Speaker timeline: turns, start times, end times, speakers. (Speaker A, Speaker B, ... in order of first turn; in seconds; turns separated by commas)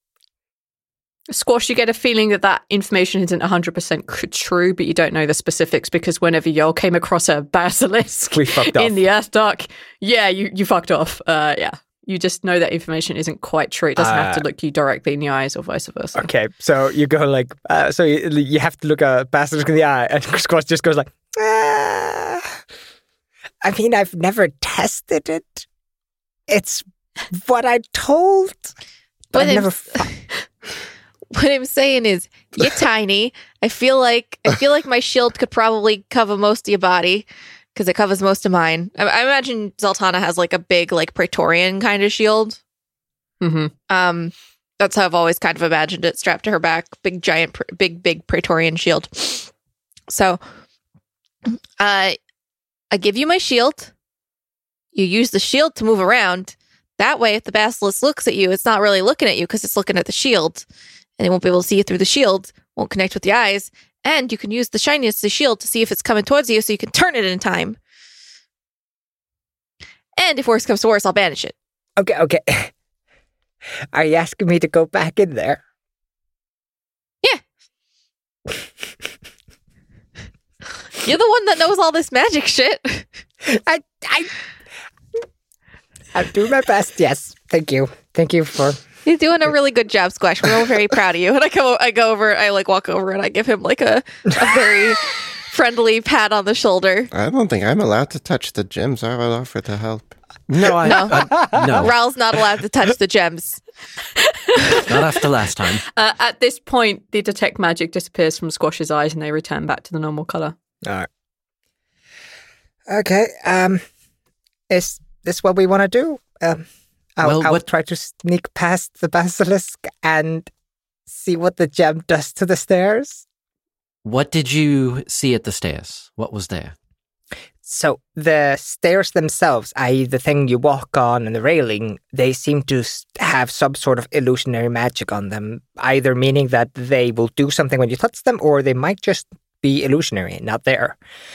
Speaker A: 1.3-16.3, Speaker B: 8.3-9.0, Speaker B: 14.0-14.5, Speaker B: 16.1-22.6, Speaker B: 23.6-25.7, Speaker B: 26.5-28.7, Speaker B: 29.3-30.0, Speaker C: 29.3-30.2, Speaker C: 31.3-42.6, Speaker A: 43.4-43.7, Speaker C: 43.9-49.5, Speaker C: 50.1-50.4, Speaker C: 51.5-52.2, Speaker C: 52.9-53.9, Speaker C: 55.0-60.6, Speaker C: 61.2-67.8, Speaker C: 70.2-71.5, Speaker B: 72.0-72.7, Speaker B: 73.9-75.6, Speaker C: 81.0-83.1, Speaker B: 83.5-84.3, Speaker B: 86.1-88.8, Speaker C: 89.0-97.1, Speaker D: 97.1-100.1, Speaker E: 100.5-101.9, Speaker B: 100.6-101.8, Speaker C: 100.8-101.3, Speaker C: 101.8-103.6, Speaker E: 104.8-105.8, Speaker A: 105.9-110.5, Speaker B: 112.9-113.8, Speaker B: 114.7-116.7, Speaker B: 117.2-120.5, Speaker E: 117.2-117.6, Speaker B: 121.1-123.2, Speaker E: 124.0-126.8, Speaker B: 127.6-141.0